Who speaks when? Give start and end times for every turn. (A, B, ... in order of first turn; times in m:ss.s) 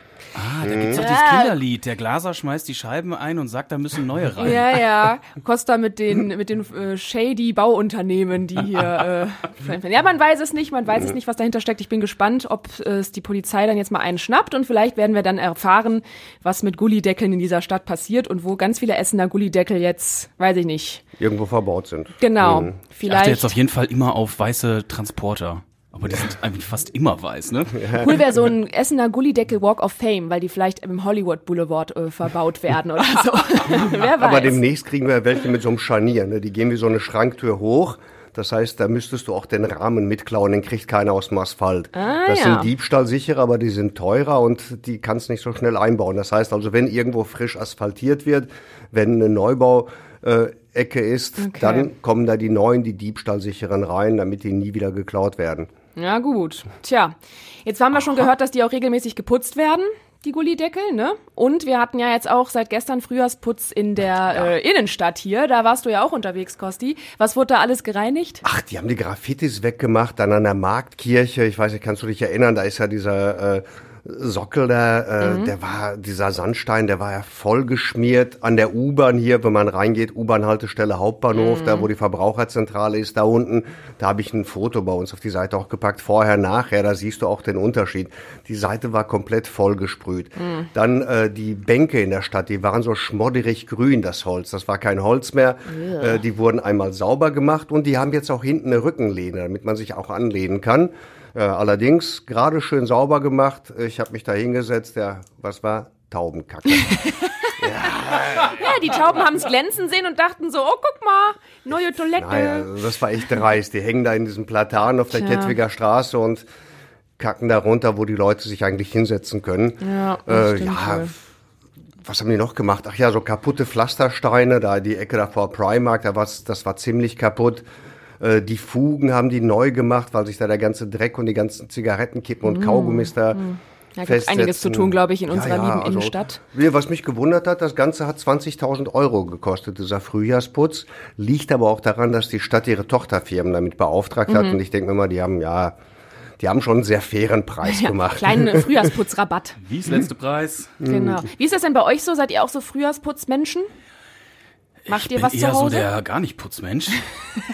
0:00.3-0:04.8 A
0:00.6-0:01.0 B
0:01.0-0:01.5 C
0:04.4-0:21.0 C
0:21.2-0:22.8 B
0:22.2-0:23.5 C
0:23.1-0:27.9 A
0:27.8-0:28.2 B
0:27.9-0:34.6 C
0:34.0-0:55.7 B
0:41.9-0:42.7 C
0:51.4-0:51.9 C
0:56.0-1:08.4 C
1:08.4-1:47.0 B
1:15.2-1:15.5 C
1:21.3-1:21.9 C
1:30.4-1:30.7 C
1:35.7-1:36.2 C
1:47.1-1:47.5 C
1:47.5-1:49.0 B
1:48.4-1:52.7 C
1:52.2-1:56.5 B
1:55.1-1:55.6 C
1:57.2-2:01.2 B
1:59.8-2:01.1 C
2:02.0-2:07.6 B
2:08.2-2:13.4 B
2:12.4-2:16.4 C
2:14.0-2:25.8 B
2:24.3-2:24.6 C
2:26.4-2:28.9 B
2:27.6-2:29.6 C
2:29.6-2:30.8 A
2:30.8-2:31.2 B
2:30.8-2:33.7 C
2:34.8-2:37.1 A
2:34.9-2:35.9 C